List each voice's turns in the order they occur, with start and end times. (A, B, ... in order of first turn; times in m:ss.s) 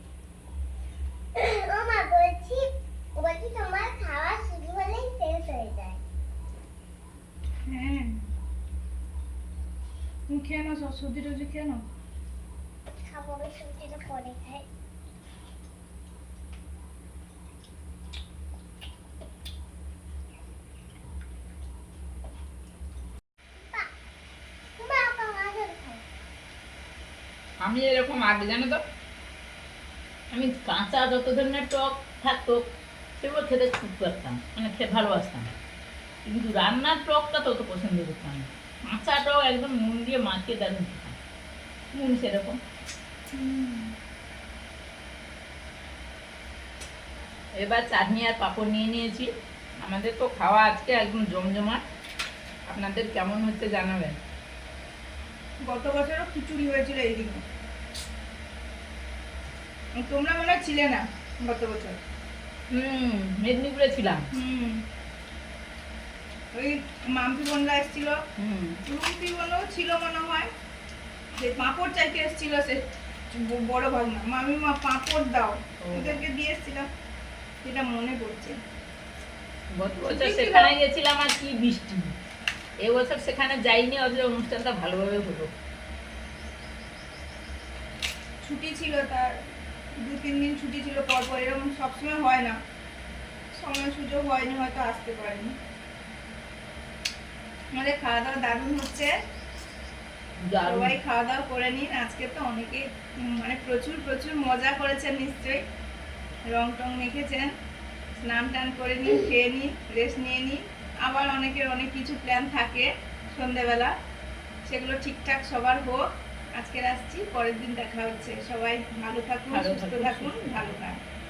0:01.3-0:06.0 A
0:07.7-0:08.2 B
0:10.3-0:11.8 B
0:13.0-0:14.6 A
0:23.5-0:23.9 A
0:24.8-0:26.1 A
0:27.6-0:28.8 C
0:30.3-0:32.6 C
0:33.2-0:35.5 C
0:36.2-0:41.2 C
0:41.9-0:42.6 C
0:43.3-0:43.9 B
0:47.6-0:51.8 C
0:52.6-0:54.2 C
0:55.6-0:57.4 B
1:00.0-1:02.0 B
1:02.7-1:04.3 C
1:04.3-1:04.8 B
1:06.5-1:08.2 B
1:08.4-1:08.8 C
1:08.9-1:10.5 B
1:11.4-1:16.9 B
1:15.8-1:16.2 C
1:17.6-1:18.6 B
1:19.7-1:22.1 C
1:20.1-1:20.7 B
1:22.8-1:25.5 C
1:28.4-1:29.3 B
1:30.0-1:32.6 B
1:33.5-1:35.5 B
1:37.7-1:39.1 B
1:40.4-1:41.0 C
1:40.6-1:45.6 B
1:46.5-1:47.5 B
1:48.2-1:53.9 B
1:54.6-1:56.0 B
1:56.5-2:01.0 B
1:59.5-2:00.8 C